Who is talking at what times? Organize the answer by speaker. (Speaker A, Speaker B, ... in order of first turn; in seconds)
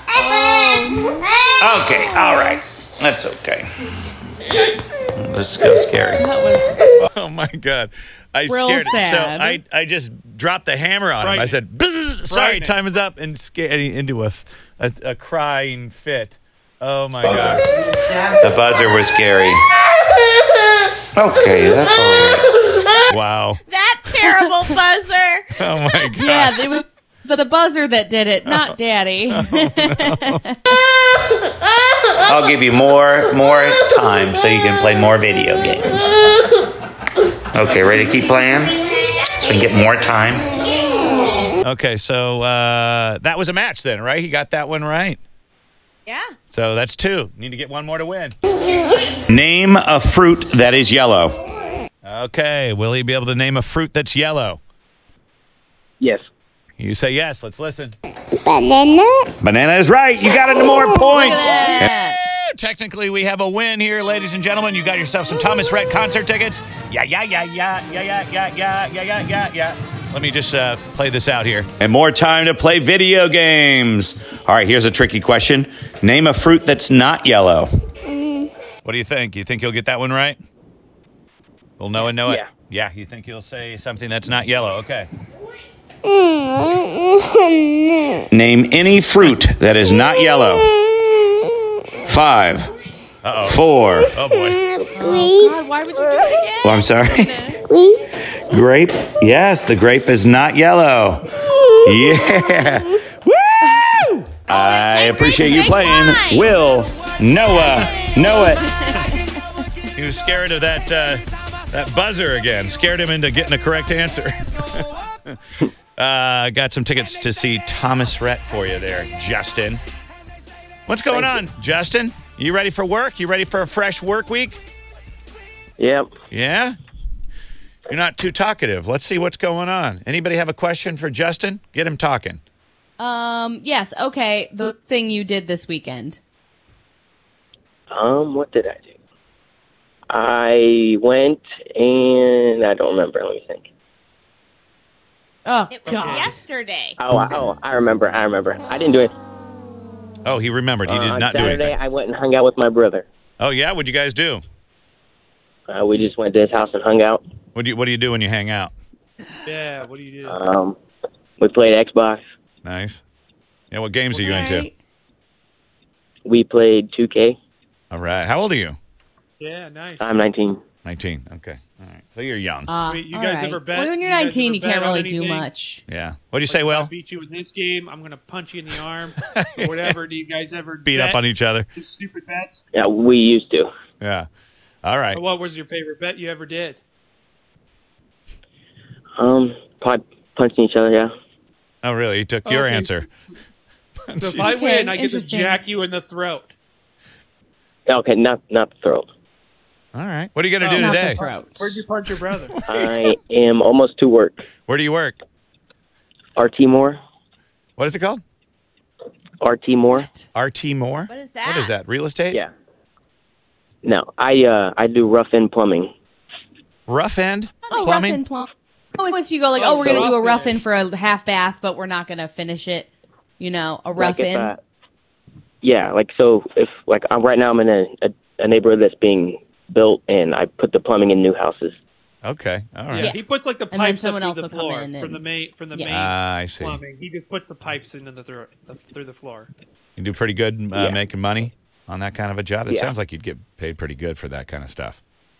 Speaker A: 0.1-1.2, 1.9-2.6, 6.2-6.7, 8.5-9.6, 26.1-30.8, 61.1-62.2, 94.9-97.6, 103.7-104.2, 108.7-109.3, 133.0-136.2, 145.4-146.3, 164.2-164.7, 172.7-175.8, 194.4-195.6, 200.7-201.8, 209.9-210.2, 217.7-224.5, 233.0-235.2, 235.7-236.0
Speaker B: 1.6-3.7, 5.2-6.2, 18.4-19.6, 21.1-22.4, 32.2-36.1, 37.5-38.8, 39.4-40.4, 49.3-51.3, 59.4-61.3, 74.4-74.7, 76.5-77.6, 88.3-90.7, 92.1-92.7, 93.5-94.1, 96.6-97.5, 98.5-101.2, 101.8-102.8, 104.8-108.7
Speaker C: 7.0-17.6, 23.1-23.6, 25.6-26.6, 29.4-30.2, 41.6-45.2, 46.5-48.4, 52.0-54.6, 56.8-57.9, 59.9-77.6, 78.8-80.4, 81.8-85.1, 93.2-94.6, 104.5-106.0, 107.2-108.4, 109.9-115.3, 116.0-119.8, 120.9-124.6, 126.3-126.7, 127.9-132.4, 150.2-151.7, 153.4-154.4, 157.5-158.7, 162.6-163.0, 163.7-164.7, 167.9-168.8, 170.8-172.7, 175.9-176.9, 179.3-179.9, 180.8-181.7, 184.0-184.3, 184.8-185.2, 191.8-193.1, 194.1-194.5, 199.9-201.2, 204.7-205.2, 207.8-208.2, 210.3-212.4, 216.9-218.2, 232.2-233.1, 235.9-236.8, 240.0-245.0
Speaker D: 11.2-11.6, 12.3-12.8, 145.9-146.3, 159.4-160.4, 169.4-170.1, 172.9-175.4, 176.5-181.2, 181.7-182.6, 185.1-186.8, 192.4-193.1, 194.2-196.5, 200.6-202.6, 219.5-220.6, 232.9-239.5
Speaker E: 22.3-23.1, 23.6-25.4, 104.5-106.5, 145.7-147.0, 211.1-211.7
Speaker F: 58.4-59.3, 86.0-88.2, 91.1-91.4, 94.3-95.5, 97.7-98.1
Speaker G: 121.1-121.4, 125.8-126.1, 137.9-138.9, 140.1-143.7, 147.0-149.1, 150.8-153.1, 155.7-157.2, 160.2-160.8, 161.4-162.2, 166.2-167.3, 170.0-170.6, 182.7-183.7, 189.2-191.1, 197.9-199.1, 202.7-204.4, 206.3-207.0, 209.4-210.1, 213.8-215.9, 223.9-224.6, 225.6-231.8, 240.7-241.0, 242.7-242.9